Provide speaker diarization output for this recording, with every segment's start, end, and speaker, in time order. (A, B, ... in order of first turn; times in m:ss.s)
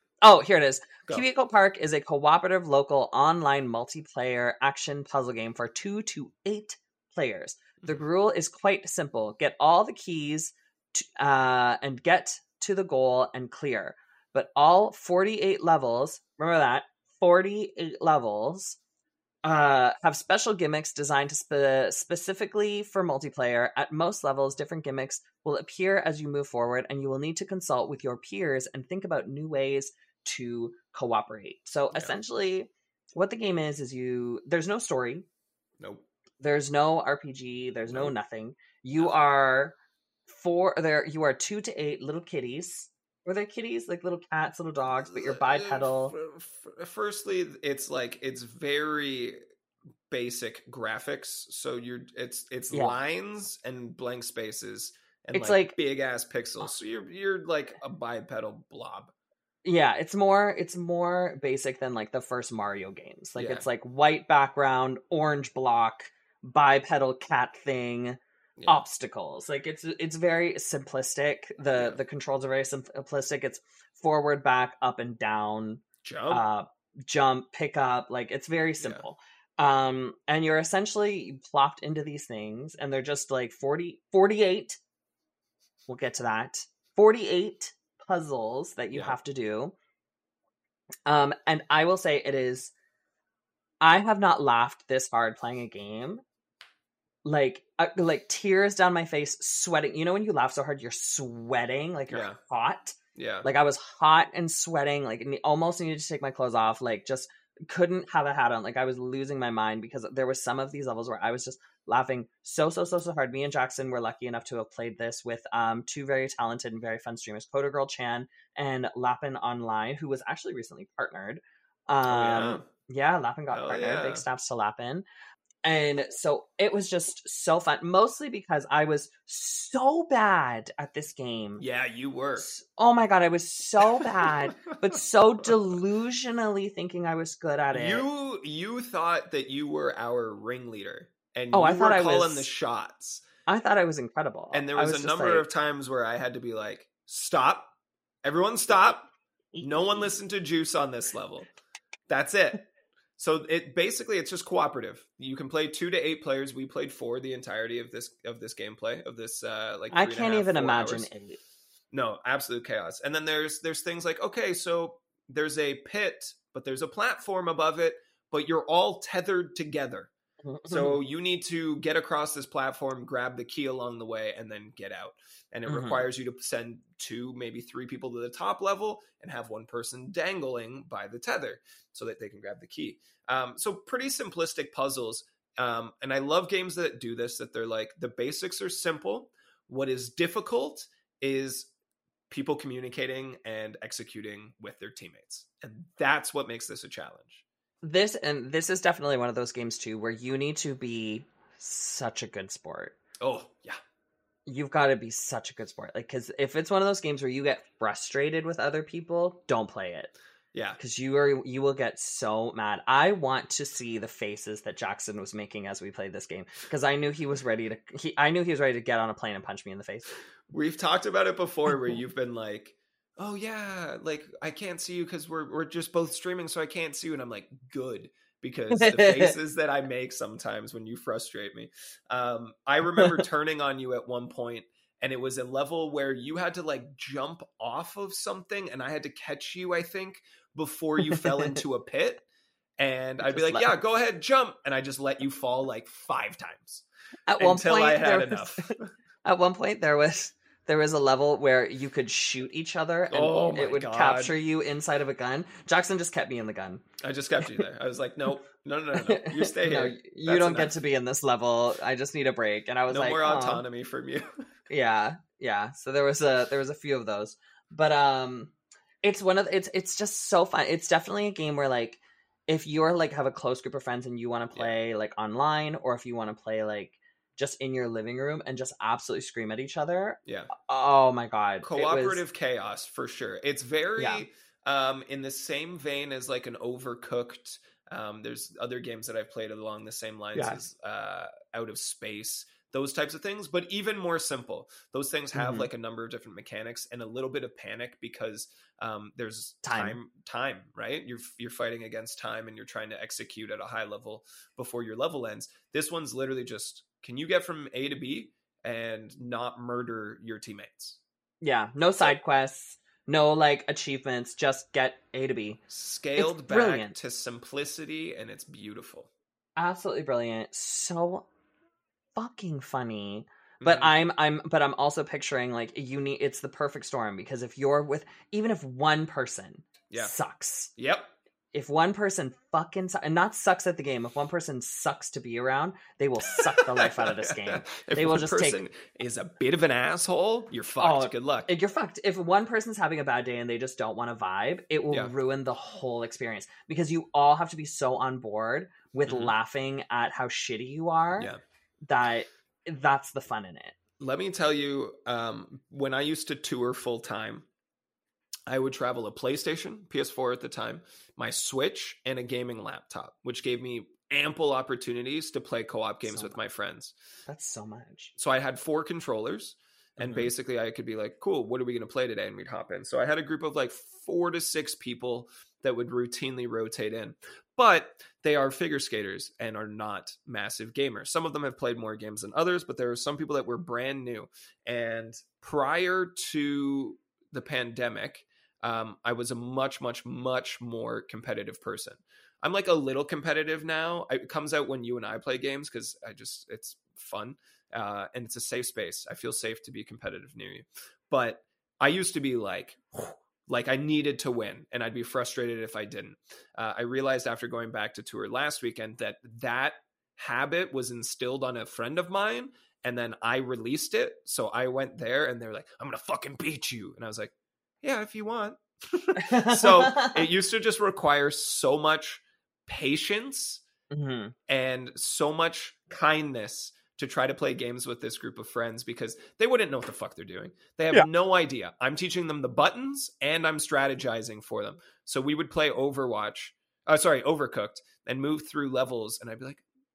0:00.2-0:18.8 A
0:19.4-0:35.2 A
0:35.8-0:36.0 B
0:36.4-0:39.8 A
0:40.3-0:46.1 A
0:44.9-0:49.4 B
0:50.1-0:59.1 B
0:52.7-0:53.0 A
0:55.3-0:55.8 A
0:59.6-1:24.8 A
1:03.4-1:03.6 B
1:08.6-1:08.8 B
1:11.7-1:12.0 B
1:16.0-1:16.4 B
1:18.8-1:19.0 B
1:25.9-1:29.7 A
1:31.0-1:32.7 A
1:33.8-1:36.2 A
1:37.2-2:05.0 A
1:42.1-1:42.4 B
1:43.1-1:43.5 B
2:02.0-2:02.7 B
2:03.5-2:04.2 B
2:05.6-2:11.6 A
2:11.6-2:12.5 B
2:12.4-2:18.0 A
2:13.8-2:15.5 B
2:17.7-2:23.2 B
2:21.5-2:22.5 A
2:23.5-2:25.5 A
2:24.5-2:31.5 B
2:29.5-2:30.1 A
2:32.1-2:32.6 B
2:33.2-2:41.1 B
2:39.9-2:41.4 A
2:41.9-2:50.1 B
2:50.4-2:51.0 A
2:50.6-3:11.7 B
2:55.7-2:56.0 A
3:12.3-3:17.4 B
3:17.8-3:23.0 A
3:23.2-3:23.8 B
3:24.4-3:30.1 A
3:30.5-3:30.8 B
3:30.8-3:40.2 A
3:40.5-4:02.2 B
3:48.7-3:49.3 A
4:01.0-4:01.6 A
4:02.8-4:06.8 B
4:03.2-4:03.7 A
4:07.3-4:16.8 A
4:07.4-4:08.9 B
4:13.1-4:14.3 B
4:17.0-4:20.8 B
4:18.9-4:23.6 A
4:22.9-4:24.4 B
4:24.7-4:42.2 A
4:40.2-4:40.5 B
4:41.6-5:11.0 B
4:44.0-4:44.2 A
4:50.3-4:50.6 A
4:55.3-4:55.7 A
4:59.6-5:00.0 A
5:11.4-5:15.6 A
5:15.7-5:19.1 B
5:16.2-5:16.9 A
5:19.6-5:21.3 A
5:22.2-5:30.7 A
5:23.6-5:23.9 B
5:30.8-5:31.1 B
5:31.5-5:38.6 A
5:36.3-5:41.5 B
5:40.8-5:51.3 A
5:49.1-5:49.3 B
5:51.8-5:53.8 A
5:54.0-5:57.4 B
5:58.5-6:06.9 B
6:06.0-6:06.4 A
6:07.3-6:08.1 A
6:08.2-7:03.6 B
6:10.0-6:10.3 A
6:59.2-7:00.2 A
7:03.9-7:04.3 A
7:04.5-7:19.6 B